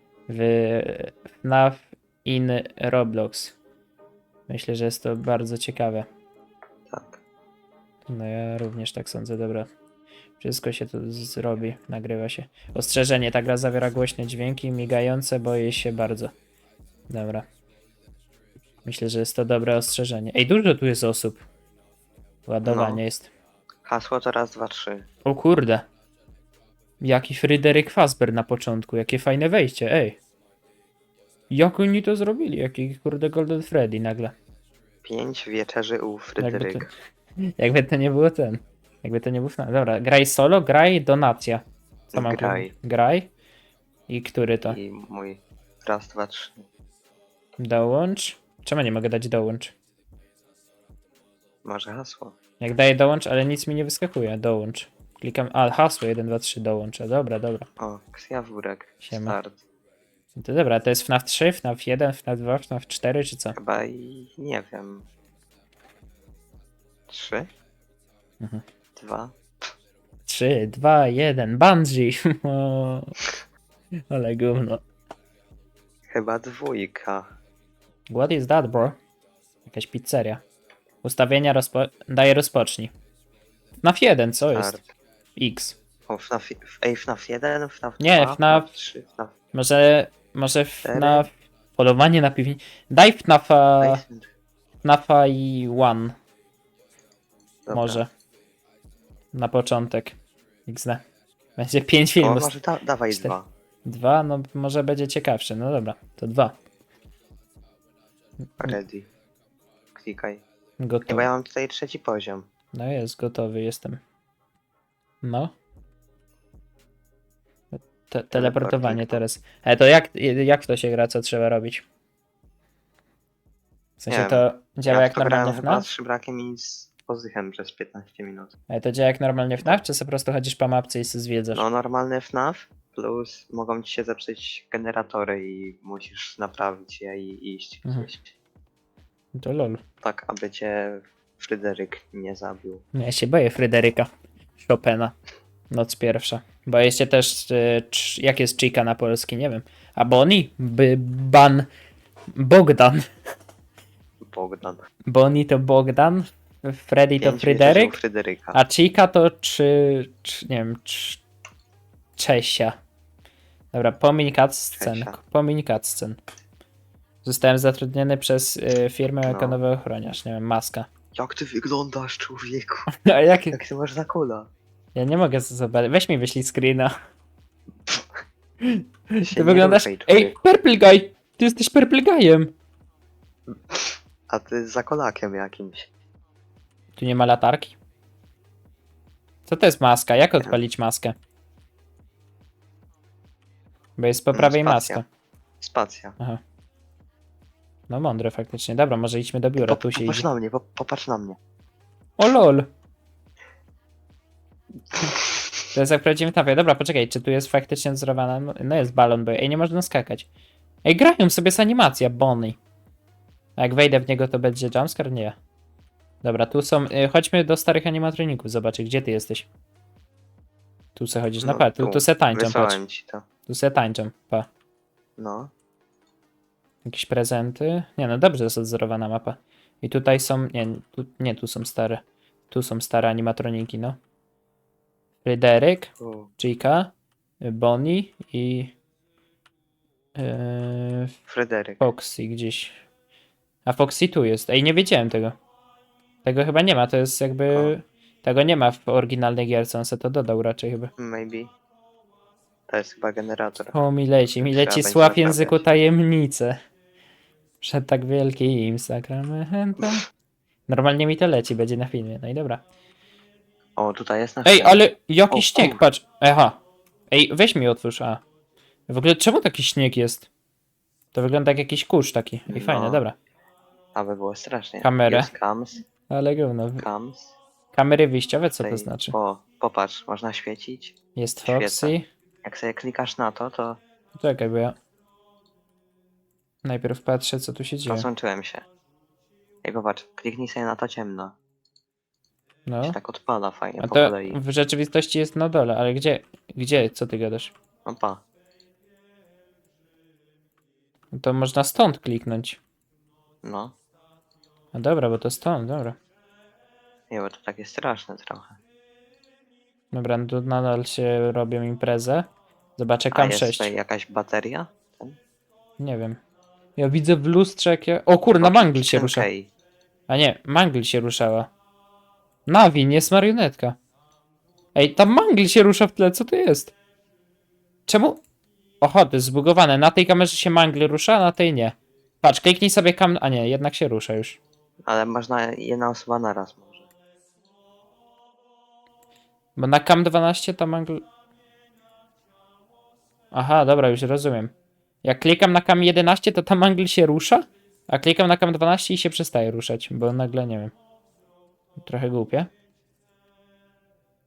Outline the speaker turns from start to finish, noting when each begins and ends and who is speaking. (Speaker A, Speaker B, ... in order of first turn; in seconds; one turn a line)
Speaker A: 0.3-3.5
Speaker A: 4.5-6.1
Speaker B: 6.9-7.2
Speaker A: 8.1-9.7
Speaker A: 10.4-16.3
Speaker A: 17.1-17.4
Speaker A: 18.8-21.4
Speaker A: 22.5-23.3
Speaker B: 22.6-23.0
Speaker B: 23.8-25.1
Speaker A: 25.2-25.9
Speaker A: 27.0-30.2
Speaker A: 31.5-34.3
Speaker B: 35.0-36.9
Speaker A: 36.4-43.3
Speaker B: 42.1-42.7
Speaker A: 44.1-44.8
Speaker B: 44.7-46.6
Speaker A: 47.6-49.7
Speaker B: 51.6-52.3
Speaker A: 52.6-57.7
Speaker B: 57.8-59.6
Speaker A: 59.0-59.4
Speaker A: 60.3-63.6
Speaker B: 63.5-65.0
Speaker B: 67.1-67.5
Speaker B: 69.0-69.3
Speaker A: 70.3-73.2
Speaker A: 74.1-74.8
Speaker B: 76.1-77.2
Speaker A: 78.1-79.0
Speaker A: 79.7-80.4
Speaker A: 81.0-82.9
Speaker A: 83.8-84.8
Speaker B: 84.5-84.9
Speaker A: 85.4-85.8
Speaker B: 86.1-89.3
Speaker A: 88.0-88.7
Speaker A: 89.5-94.0
Speaker B: 90.8-91.3
Speaker B: 93.8-94.3
Speaker A: 94.8-96.1
Speaker B: 97.7-98.0
Speaker A: 97.7-98.1
Speaker A: 99.3-101.0
Speaker A: 101.6-102.5
Speaker B: 102.2-103.5
Speaker A: 103.1-106.5
Speaker B: 108.6-109.1
Speaker B: 109.9-110.4
Speaker A: 110.8-111.3
Speaker B: 111.1-112.5
Speaker A: 112.7-114.0
Speaker A: 115.2-115.5
Speaker A: 117.7-121.8
Speaker B: 118.3-119.2
Speaker A: 124.0-125.9
Speaker B: 124.1-128.5
Speaker A: 128.7-131.6
Speaker B: 131.5-138.3
Speaker A: 139.3-139.8
Speaker B: 140.0-142.8
Speaker A: 142.9-144.1
Speaker A: 144.6-145.1
Speaker A: 145.7-151.7
Speaker A: 152.3-153.1
Speaker B: 154.2-154.8
Speaker A: 155.1-158.0
Speaker B: 157.2-158.6
Speaker A: 158.5-161.2
Speaker A: 162.2-162.8
Speaker A: 163.7-166.2
Speaker B: 164.8-165.2
Speaker A: 167.2-170.9
Speaker B: 169.2-169.6
Speaker B: 171.1-172.8
Speaker A: 172.9-173.6
Speaker B: 173.5-174.5
Speaker A: 174.9-176.9
Speaker A: 178.6-182.5
Speaker B: 179.2-180.4
Speaker B: 183.5-185.9
Speaker A: 187.0-187.8
Speaker A: 189.5-191.1
Speaker A: 194.0-195.0
Speaker B: 194.3-195.0
Speaker B: 195.6-196.2
Speaker A: 197.9-200.2
Speaker B: 199.6-201.4
Speaker A: 202.2-202.7
Speaker B: 204.9-205.5
Speaker A: 205.7-210.3
Speaker A: 210.8-212.6
Speaker A: 213.6-215.3
Speaker A: 216.2-219.5
Speaker A: 220.9-222.8
Speaker B: 221.4-223.2
Speaker A: 223.4-224.5
Speaker B: 225.2-225.5
Speaker A: 226.8-234.0
Speaker A: 235.2-238.7
Speaker B: 236.0-236.3
Speaker A: 240.2-241.2
Speaker B: 241.3-241.8
Speaker A: 241.8-242.8
Speaker A: 243.6-245.3
Speaker A: 246.2-250.9
Speaker B: 251.0-251.5
Speaker B: 252.7-253.8
Speaker A: 253.7-256.6
Speaker B: 254.4-255.6
Speaker A: 257.6-260.0
Speaker A: 260.7-262.6
Speaker B: 263.8-264.8
Speaker A: 264.4-266.6
Speaker B: 265.3-265.8
Speaker A: 267.1-268.2
Speaker A: 268.9-270.3
Speaker A: 271.1-273.1
Speaker B: 272.5-273.0
Speaker B: 273.9-275.8
Speaker A: 274.8-275.3
Speaker A: 276.1-276.8
Speaker B: 276.8-277.4
Speaker A: 277.7-279.1
Speaker B: 278.6-283.8
Speaker A: 281.1-282.0
Speaker A: 284.1-284.8
Speaker A: 286.6-288.1
Speaker B: 287.9-288.6
Speaker B: 289.6-291.4
Speaker A: 292.7-293.0
Speaker B: 292.8-294.4
Speaker A: 293.8-297.5
Speaker B: 297.9-298.2
Speaker A: 301.1-302.6
Speaker B: 303.4-303.7
Speaker A: 304.7-305.9
Speaker B: 307.1-308.6
Speaker A: 309.9-312.2
Speaker A: 312.8-313.7
Speaker B: 313.1-315.2
Speaker A: 315.8-316.2
Speaker A: 316.8-319.3
Speaker B: 318.4-319.5
Speaker A: 320.1-321.5
Speaker A: 322.5-323.8
Speaker A: 324.7-326.7
Speaker A: 327.9-328.2
Speaker A: 328.8-334.4
Speaker B: 334.9-336.9
Speaker A: 339.6-341.0
Speaker A: 343.3-344.5
Speaker A: 345.0-350.7
Speaker A: 351.8-352.5